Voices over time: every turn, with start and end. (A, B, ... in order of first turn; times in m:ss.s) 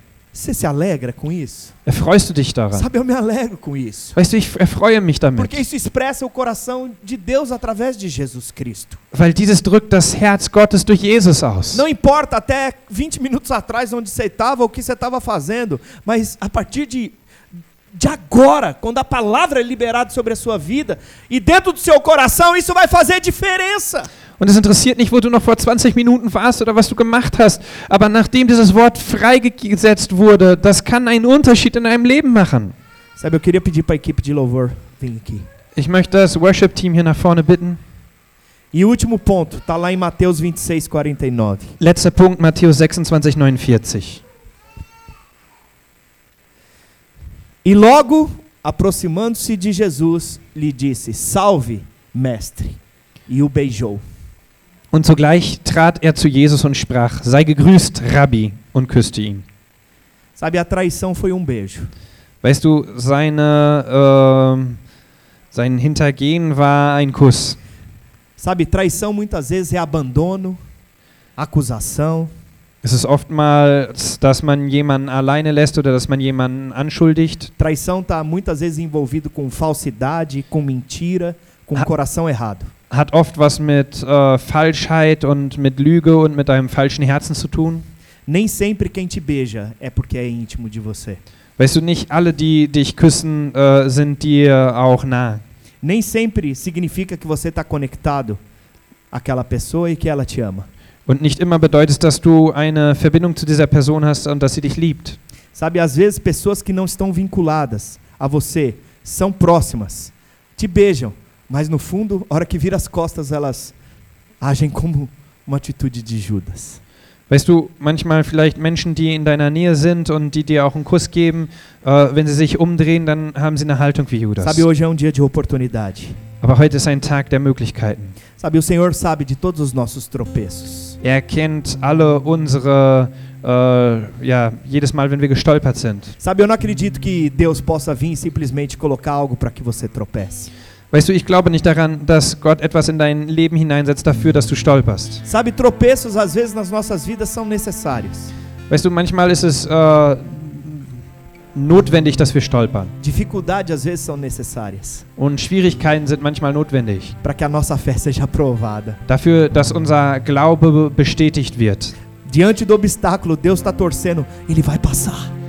0:00.3-0:01.7 A
0:01.8-0:02.9 B
0:02.7-0:04.2 A
0:04.2-0:05.6 B
0:05.4-0:09.0 A
0:09.1-0:11.8 B
0:11.7-0:17.2 A
0:17.9-0:24.1 A
0:24.4-0:32.7 B
0:33.2-0:35.4 A
0:35.8-0:37.8 B
0:38.7-0:41.8 A
0:41.8-0:44.2 B
0:47.6-0:54.0 A
0:54.9-0:59.4 B
1:00.4-1:01.9 A
1:02.4-1:04.8 B
1:05.5-1:07.6 B
1:08.4-1:10.6 A
1:11.4-1:12.3 A
1:12.8-1:17.5 B
1:17.6-1:22.7 A
1:22.9-1:27.9 B
1:28.3-1:31.2 A
1:31.6-1:35.4 B
1:35.8-1:38.4 A
1:39.1-1:40.7 A
1:41.1-1:45.2 B
1:45.5-1:53.7 A
1:54.4-1:56.8 A
1:57.3-2:04.6 B
2:04.4-2:06.2 A
2:06.4-2:08.2 B
2:08.4-2:11.0 A
2:11.0-2:16.1 B
2:16.2-2:20.5 A
2:20.9-2:25.2 B
2:25.2-2:28.3 A
2:28.7-2:31.0 B
2:31.5-2:32.9 B
2:33.0-2:35.0 A
2:35.2-2:37.1 B
2:37.2-2:39.0 A
2:39.1-2:41.9 B
2:42.2-2:45.3 A